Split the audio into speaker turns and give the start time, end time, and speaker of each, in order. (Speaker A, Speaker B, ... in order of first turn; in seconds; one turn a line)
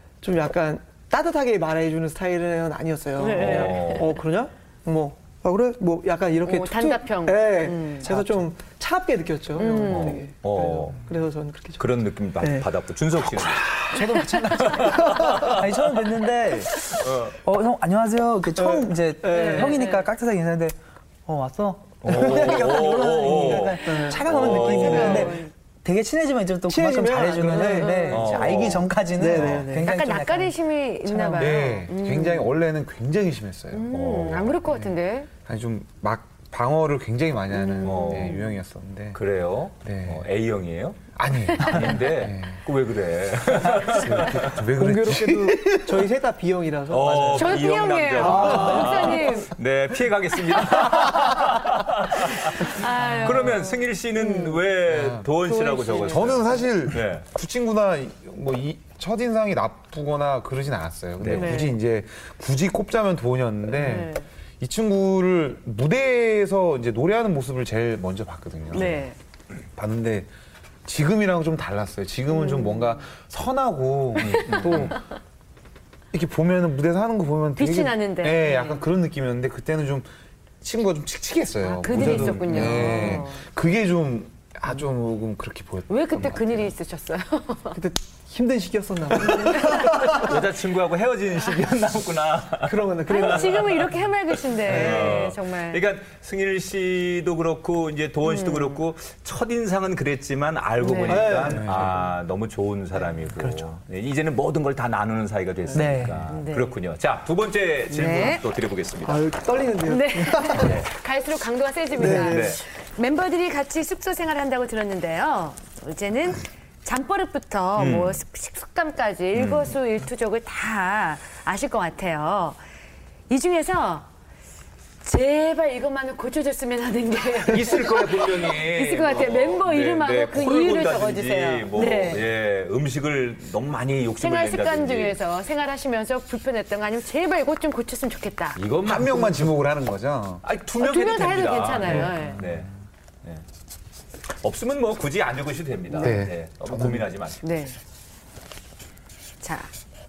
Speaker A: 0.2-11.9
Speaker B: 3.2-4.2
Speaker C: 3.3-4.1
Speaker B: 6.5-8.1
Speaker D: 8.1-8.5
Speaker B: 9.6-10.3
Speaker C: 9.8-11.0
Speaker C: 11.8-15.7
Speaker A: 12.4-12.7
Speaker D: 13.9-16.9
Speaker A: 14.9-15.6
Speaker C: 16.7-17.4
Speaker D: 17.4-20.8
Speaker A: 18.5-19.8
Speaker B: 19.3-20.1
Speaker D: 21.3-30.5
Speaker C: 22.0-25.3
Speaker A: 22.1-25.4
Speaker B: 24.4-25.5
Speaker A: 26.7-28.2
Speaker B: 27.7-28.5
Speaker C: 28.1-29.6
Speaker A: 29.2-29.9
Speaker B: 29.8-32.5
Speaker D: 31.1-31.6
Speaker E: 31.4-33.9
Speaker B: 33.7-35.3
Speaker C: 33.9-34.6
Speaker E: 34.6-39.2
Speaker B: 37.5-38.5
Speaker C: 37.8-38.4
Speaker C: 39.1-44.7
Speaker E: 39.8-40.3
Speaker E: 41.2-42.6
Speaker E: 43.8-46.0
Speaker A: 44.7-49.5
Speaker C: 46.9-57.2
Speaker B: 47.3-49.5
Speaker B: 50.5-51.3
Speaker B: 52.6-54.6
Speaker E: 54.9-55.3
Speaker B: 55.4-56.4
Speaker E: 55.9-69.1
Speaker C: 61.2-61.6
Speaker B: 61.3-61.8
Speaker B: 63.7-64.2
Speaker B: 68.7-69.2
Speaker E: 69.8-70.3
Speaker E: 70.8-75.0
Speaker B: 72.3-73.0
Speaker C: 74.2-75.0
Speaker B: 74.3-75.0
Speaker E: 76.1-80.1
Speaker B: 77.6-78.8
Speaker E: 80.6-86.7
Speaker B: 81.6-83.5
Speaker C: 81.9-83.2
Speaker B: 85.9-87.8
Speaker A: 87.7-90.3
Speaker B: 89.6-90.3
Speaker C: 89.7-109.3
Speaker A: 92.6-93.9
Speaker B: 93.1-95.8
Speaker A: 94.7-95.2
Speaker B: 98.2-98.8
Speaker B: 100.8-101.4
Speaker A: 101.1-101.7
Speaker E: 101.5-102.0
Speaker D: 103.4-103.7
Speaker D: 105.7-106.2
Speaker B: 106.3-106.8
Speaker B: 107.9-108.4
Speaker A: 109.0-110.8
Speaker B: 109.8-122.6
Speaker C: 110.5-110.9
Speaker A: 111.9-112.6
Speaker C: 112.0-112.6
Speaker C: 117.8-118.2
Speaker C: 119.3-119.8
Speaker B: 123.3-124.1
Speaker B: 125.0-132.2
Speaker C: 127.4-135.2
Speaker B: 134.2-138.6
Speaker C: 138.6-139.5
Speaker E: 138.8-140.4
Speaker C: 140.4-142.7
Speaker B: 140.8-142.4
Speaker E: 142.1-142.7
Speaker C: 144.4-147.4
Speaker E: 146.0-147.1
Speaker B: 147.4-147.8
Speaker B: 149.4-149.7